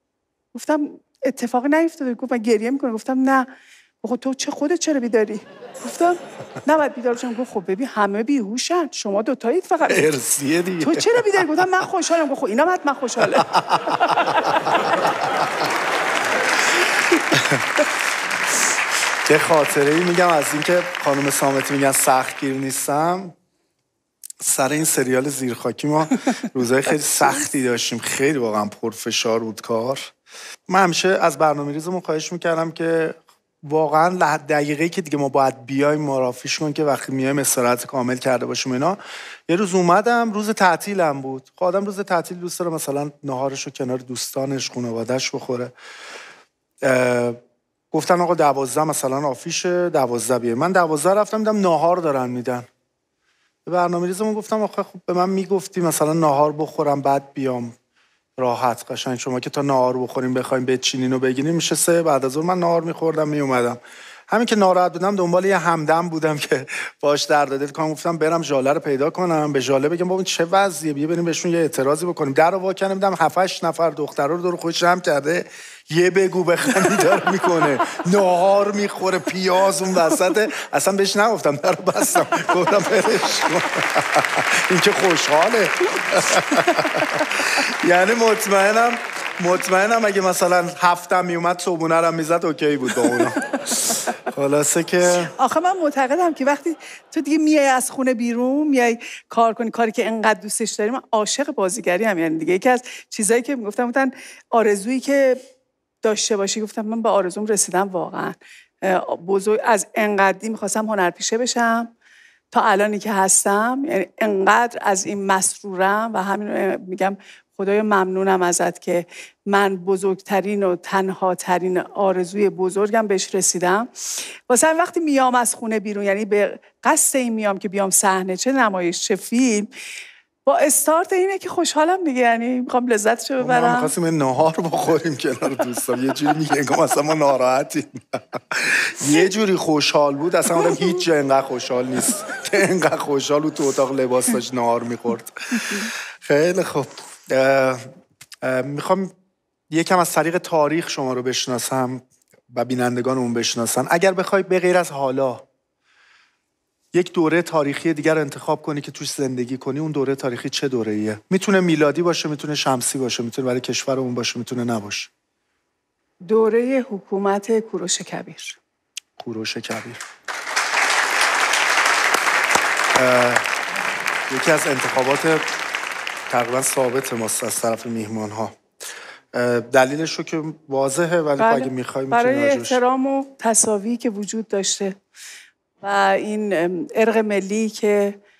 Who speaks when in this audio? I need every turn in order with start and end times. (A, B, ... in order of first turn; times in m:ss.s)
0:00.5-0:03.5 A
0:04.0-0:10.1 A
0:09.9-0:11.6 B
0:10.8-0:14.8 A
0:13.4-0:15.3 B
0:17.3-0:17.6 B
0:19.2-0:23.3 B
0:24.4-0:30.1 B
0:30.7-0:45.7 B
0:46.8-0:47.4 B
0:47.9-0:52.7 B
0:53.6-0:57.8 B
0:58.4-1:35.3 B
1:26.5-1:27.1 A
1:33.7-1:34.0 A
1:35.3-1:45.4 A
1:46.0-1:51.9 A
1:52.5-2:09.7 A
2:10.4-2:13.9 A
2:13.4-2:27.9 B
2:28.4-2:29.1 B
2:29.7-2:35.4 B
2:36.9-2:45.1 B
2:46.3-2:48.6 A
2:49.2-2:50.0 B
2:52.9-2:53.5 B
2:54.3-2:55.5 B
2:56.3-2:58.6 B
2:59.3-3:02.8 B
3:01.4-3:05.0 A
3:05.8-3:08.2 A